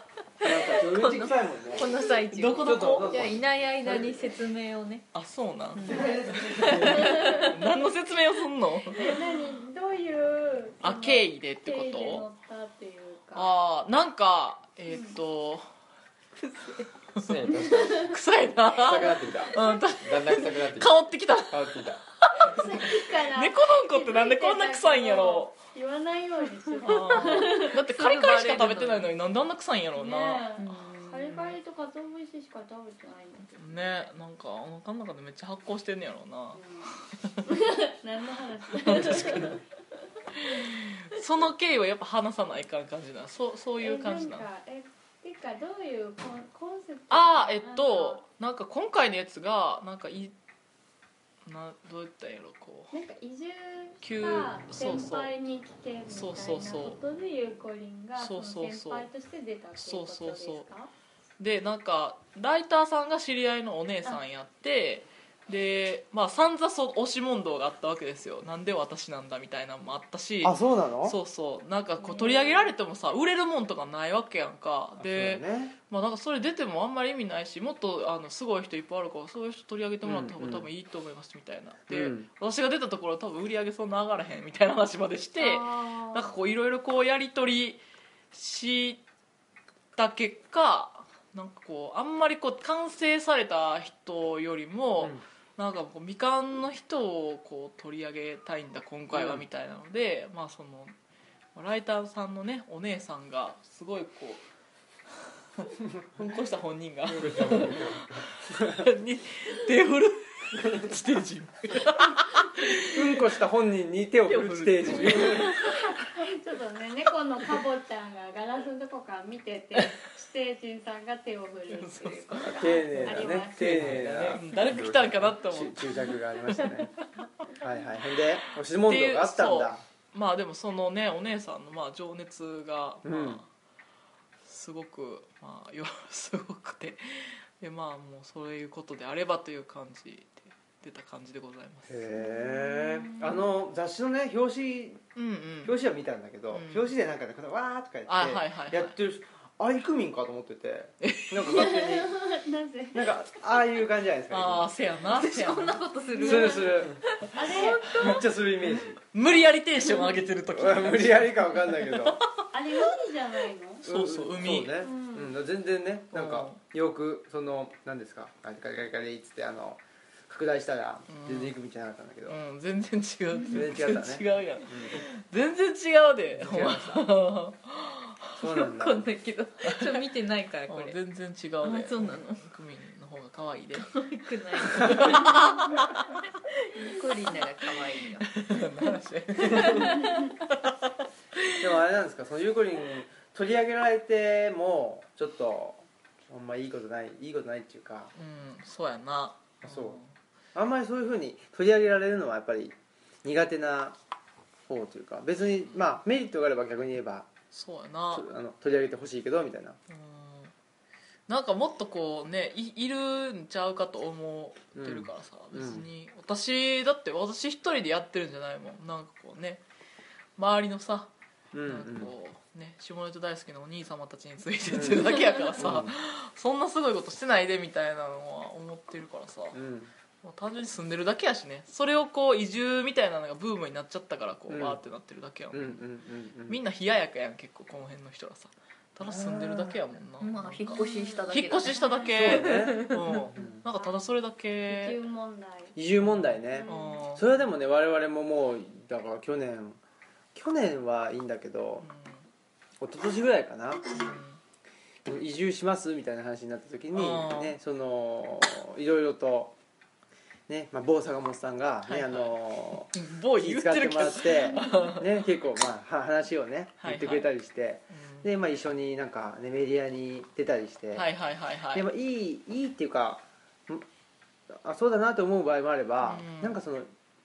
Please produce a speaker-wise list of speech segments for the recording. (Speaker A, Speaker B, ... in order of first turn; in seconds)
Speaker A: 0.4-2.0, 2.6-4.4, 5.8-7.3, 70.4-71.2, 75.0-75.8, 80.0-80.7, 81.9-82.3, 99.1-99.5, 107.2-108.0, 108.5-108.8, 112.8-115.7, 122.4-126.9, 127.5-129.8, 133.0-133.4, 141.9-145.0, 145.7-152.1, 152.9-154.7, 156.2-157.0, 158.0-159.0, 160.5-162.2, 163.8-172.4, 173.5-175.0, 176.3-177.1, 178.4-179.1, 191.6-198.1, 199.6-200.0, 200.5-204.0, 204.7-207.3, 208.1-209.8, 214.8-215.9, 221.5-222.1, 224.7-225.9, 229.5-229.9, 234.5-234.8, 235.5-236.6, 239.0-239.8, 242.1-243.6, 245.8-249.8, 250.3-251.9, 252.8-254.1, 255.1-259.5, 260.5-271.1, 271.7-273.9, 274.5-276.9
Speaker B: 0.4-5.1, 5.7-7.5, 8.9-9.2, 16.5-16.9, 27.0-29.1, 30.6-31.6, 155.0-158.3, 178.5-181.0, 181.6-182.4, 183.8-186.0, 186.7-190.2, 240.2-243.2
Speaker C: 2.3-3.1, 5.1-9.2, 10.8-12.3, 13.3-15.7, 17.9-25.5, 26.8-30.4, 33.6-37.4, 38.8-39.6, 40.4-44.5, 47.1-50.3, 51.5-52.9, 54.0-55.3, 56.1-57.0, 58.2-59.1, 59.8-60.6, 61.4-87.8, 88.3-89.0, 90.0-101.0, 101.5-104.4, 105.6-113.4, 114.2-115.8, 121.7-127.3, 128.8-133.5, 134.5-142.1, 145.2-145.8, 146.5-146.9, 148.1-148.9, 151.0-151.5, 154.3-155.8, 157.9-158.2, 159.0-162.3, 163.8-164.8, 166.1-166.6, 171.1-171.6, 172.3-178.5, 179.6-180.1, 180.7-183.9, 184.6-185.8, 188.2-191.8, 198.2-200.1, 207.5-208.3, 209.9-210.5, 211.3-219.6, 220.4-221.1, 221.6-229.6, 230.2-235.8, 236.5-245.0, 246.0-247.3, 251.8-252.2, 253.9-254.4, 256.9-257.6, 261.9-265.1, 266.8-267.3, 267.9-268.3, 270.9-271.9, 276.0-276.6
Speaker D: 3.0-3.3, 17.1-18.2, 18.7-22.0, 107.2-108.0, 123.9-125.3
Speaker E: 7.2-7.5, 8.9-13.5, 14.9-15.2, 17.6-18.1, 19.3-19.8, 22.4-27.9, 30.0-34.1, 36.5-39.6, 40.3-40.7, 43.8-48.2, 52.9-60.9, 72.0-72.7, 85.4-86.3, 115.2-124.0, 142.2-143.4, 151.4-153.3, 156.2-156.7, 157.3-158.0, 162.5-163.8, 164.8-165.3, 240.7-242.1, 243.4-244.1, 244.7-245.8, 246.5-247.1, 253.9-254.2